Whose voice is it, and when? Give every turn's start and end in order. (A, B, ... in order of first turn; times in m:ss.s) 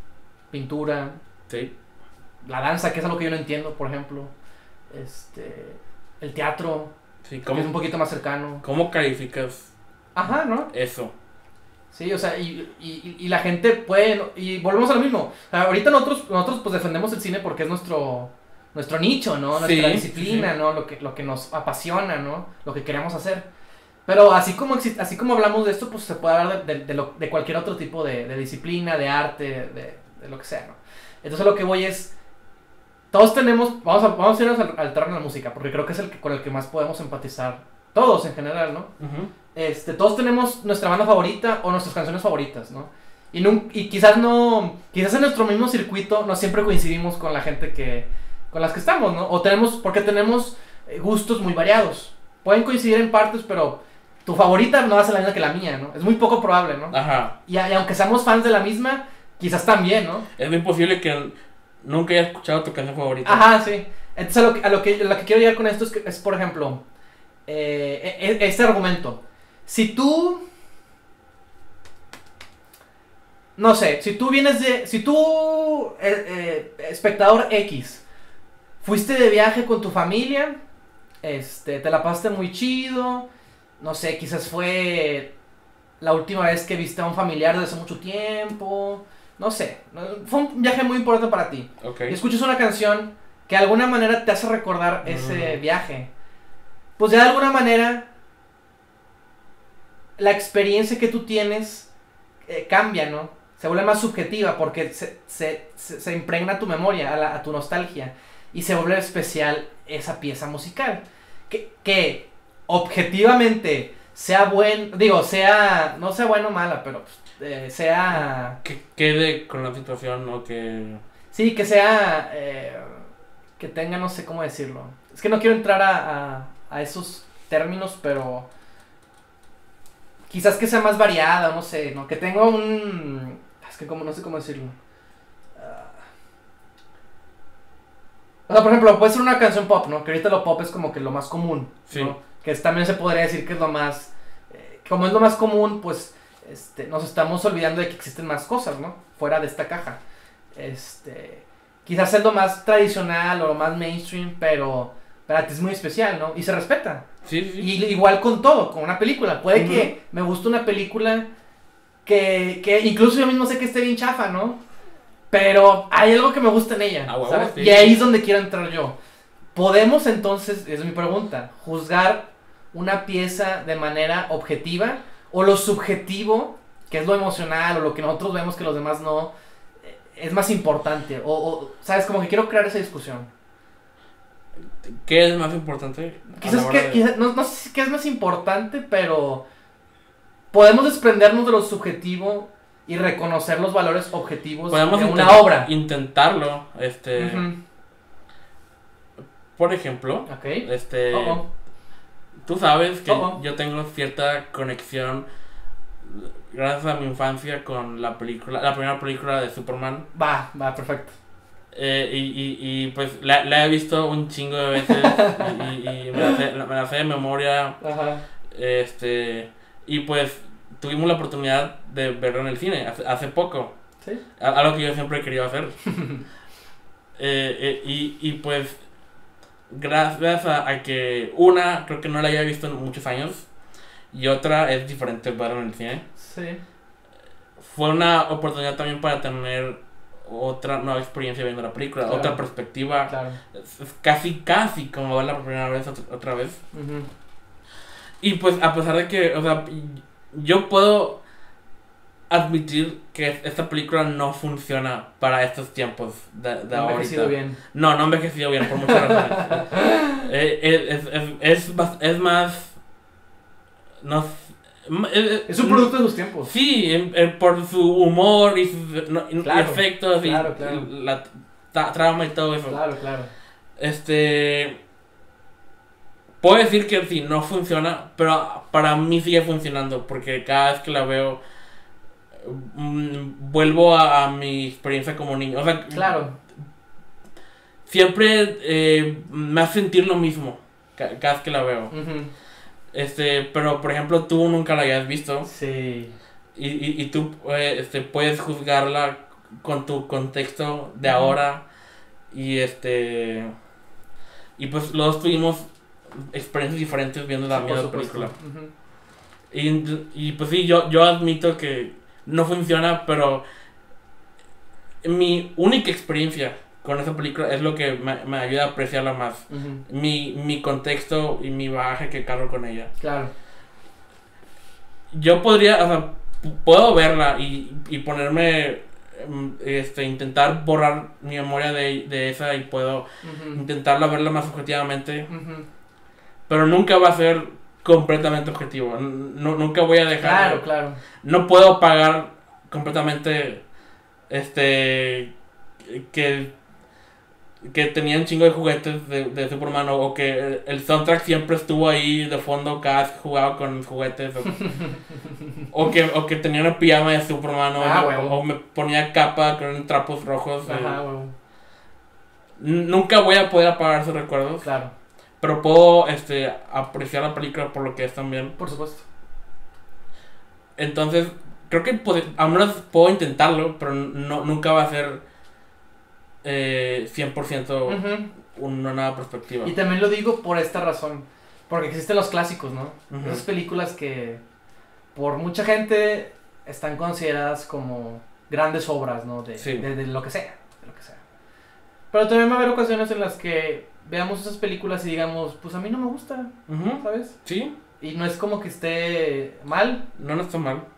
0:00.5-0:01.2 A
0:02.4-0:04.3 A
0:04.9-0:06.9 A
0:07.2-0:07.7 B
0:07.5-0:08.6 A
0:08.6-0:09.7 B
0:10.1-0:10.7 A
0:10.7-0:11.1 B
0:11.9-0:23.5 A
0:19.5-0:20.5 B
0:24.1-0:32.1 A
0:33.1-0:38.9 A
0:39.0-0:39.3 B
0:39.5-1:00.2 A
0:56.9-0:57.3 B
1:00.4-1:03.4 B
1:03.2-1:06.8 A
1:07.5-1:10.4 A
1:13.6-1:18.0 A
1:18.8-1:20.6 A
1:21.2-1:23.3 A
1:23.8-1:25.3 A
1:26.0-1:36.1 A
1:31.8-1:32.2 B
1:35.0-1:35.6 B
1:37.0-1:38.1 A
1:40.2-1:41.9 A
1:42.4-1:58.6 A
1:58.6-2:01.0 B
2:01.3-2:03.0 A
2:03.6-2:08.5 A
2:10.3-2:14.7 A
2:15.6-2:16.0 A
2:18.5-2:30.0 A
2:21.9-2:22.1 B
2:30.5-2:37.0 A
2:37.2-2:37.7 B
2:37.6-2:41.3 A
2:39.5-2:39.9 B
2:42.0-2:44.6 A
2:45.3-2:48.9 A
2:47.0-2:48.0 B
2:49.5-2:59.3 A
2:59.8-3:03.3 A
3:04.8-3:07.0 B
3:06.3-3:09.4 A
3:10.5-3:15.7 A
3:14.7-3:17.4 B
3:17.2-3:17.6 A
3:19.6-3:21.4 B
3:20.3-3:21.4 A
3:22.4-3:25.2 B
3:23.1-3:23.4 A
3:26.0-3:30.1 B
3:30.1-3:31.1 A
3:31.7-3:37.8 B
3:34.8-3:35.5 A
3:36.1-3:36.4 A
3:37.8-3:38.2 A
3:38.5-3:43.7 B
3:44.4-3:45.8 B
3:45.9-3:46.2 A
3:47.2-3:48.8 B
3:49.7-3:53.5 B
3:54.1-3:56.0 B
3:56.2-3:56.6 A
3:57.6-4:06.6 B
4:02.1-4:02.4 A
4:03.1-4:03.4 A
4:06.7-4:07.1 A
4:08.2-4:11.2 B
4:12.3-4:22.7 B
4:16.7-4:17.6 A
4:18.8-4:20.3 A
4:24.0-4:25.9 B
4:25.5-4:26.5 A
4:26.4-4:32.8 B
4:29.4-4:30.9 A
4:32.7-4:33.3 A
4:33.8-4:34.8 B
4:36.4-4:41.4 B
4:42.4-4:46.1 B
4:45.9-4:46.3 A
4:47.9-4:51.9 B
4:51.9-4:52.3 A
4:52.9-4:55.5 B
4:55.4-4:56.1 A
4:56.6-5:01.6 B
5:01.0-5:01.4 A
5:02.3-5:03.5 B
5:04.6-5:08.3 B
5:07.5-5:08.7 A
5:09.5-5:13.4 B
5:15.0-5:22.9 B
5:19.5-5:19.8 A
5:23.0-5:23.3 A
5:25.1-5:35.3 B
5:33.2-5:33.6 A
5:35.3-5:35.6 A
5:36.5-5:40.6 B
5:40.2-5:41.0 A
5:41.2-5:43.6 B
5:44.3-5:45.3 B
5:45.8-5:46.5 B
5:47.6-5:54.6 B
5:54.6-5:54.9 A
5:55.7-6:01.0 B
5:57.8-5:58.4 A
6:00.6-6:01.3 A
6:02.6-6:04.6 B
6:04.6-6:04.9 A
6:05.4-6:08.5 B
6:08.6-6:09.0 A
6:10.8-6:15.2 B
6:16.4-6:19.7 B
6:17.8-6:18.3 A
6:19.6-6:24.4 A
6:23.1-6:23.4 B
6:25.1-6:31.2 A
6:29.6-6:29.9 B
6:32.1-6:37.3 A
6:36.7-6:37.7 B
6:38.0-6:40.0 A
6:40.2-6:40.8 B